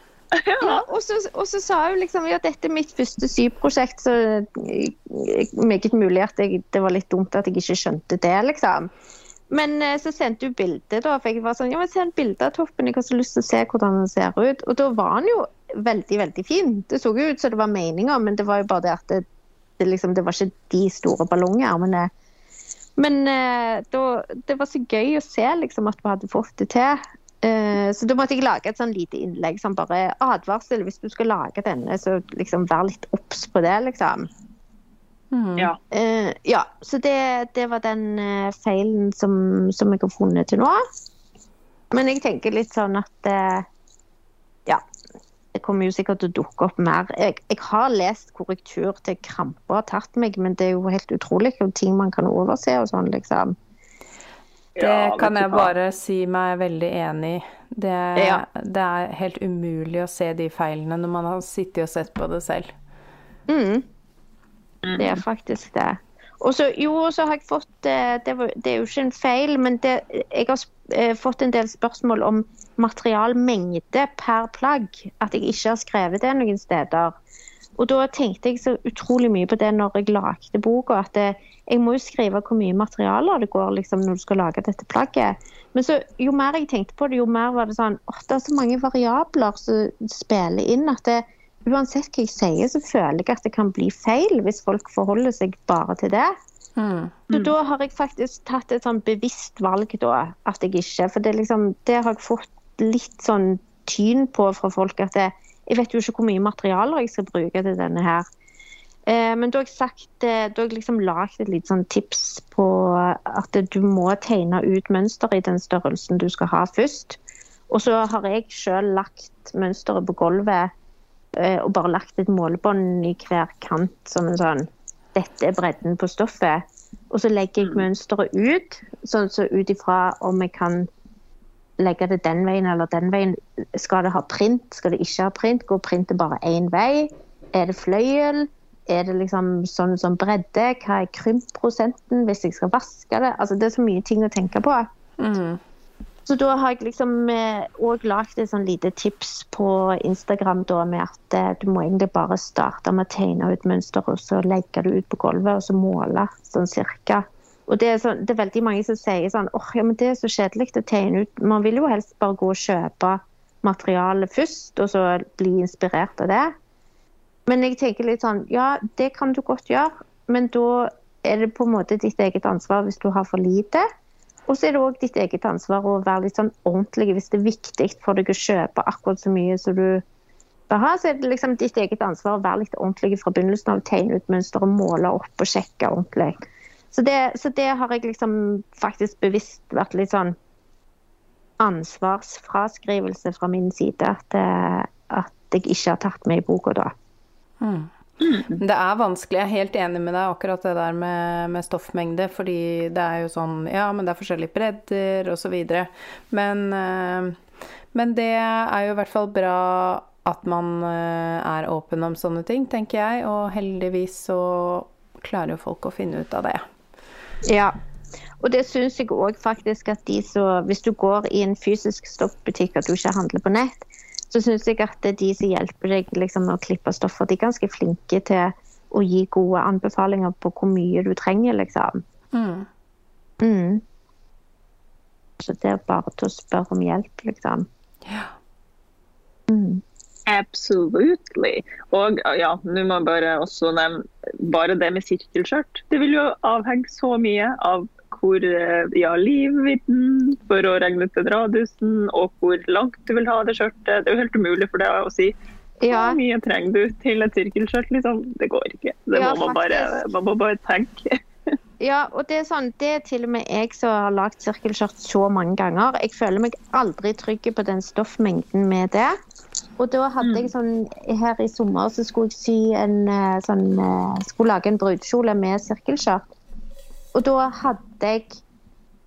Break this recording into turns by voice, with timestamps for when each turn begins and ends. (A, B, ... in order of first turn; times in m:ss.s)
0:00.4-0:00.8 A
0:00.6-0:08.9 B
0:09.5-0:19.2 B
0:19.8-0:22.1 B
0:23.0-0:34.3 B
0:35.3-0:35.7 C
0:35.9-0:40.8 B
0:41.9-0:43.6 B
0:45.5-0:53.6 B
0:54.8-0:55.7 A
0:54.8-1:02.7 C
0:58.2-0:58.4 B
1:03.5-1:03.8 B
1:04.8-1:05.2 A
1:05.0-1:17.1 B
1:17.8-1:36.3 B
1:36.8-1:37.2 C
1:37.3-1:48.2 B
1:49.1-1:57.2 B
1:57.7-2:00.7 B
2:01.3-2:10.9 B
2:11.8-2:24.9 B
2:25.2-2:25.6 C
2:26.2-2:46.5 B
2:47.5-2:53.8 B
2:54.5-3:00.0 B
3:00.7-3:06.4 B
3:06.9-3:10.3 B
3:11.6-3:16.9 B
3:17.6-3:17.9 C
3:18.2-3:18.6 A
3:18.5-3:27.4 C
3:27.9-3:36.6 C
3:37.4-3:37.8 B
3:38.4-3:52.0 B
3:52.3-3:52.7 C
3:53.4-3:53.8 B
3:55.4-3:57.7 B
3:59.5-3:59.8 B
4:00.3-4:15.3 A
4:15.8-4:16.2 B
4:15.9-4:21.2 A
4:19.1-4:20.0 B
4:21.8-4:29.1 B
4:29.8-4:36.2 B
4:30.2-4:30.5 A
4:37.1-4:38.4 B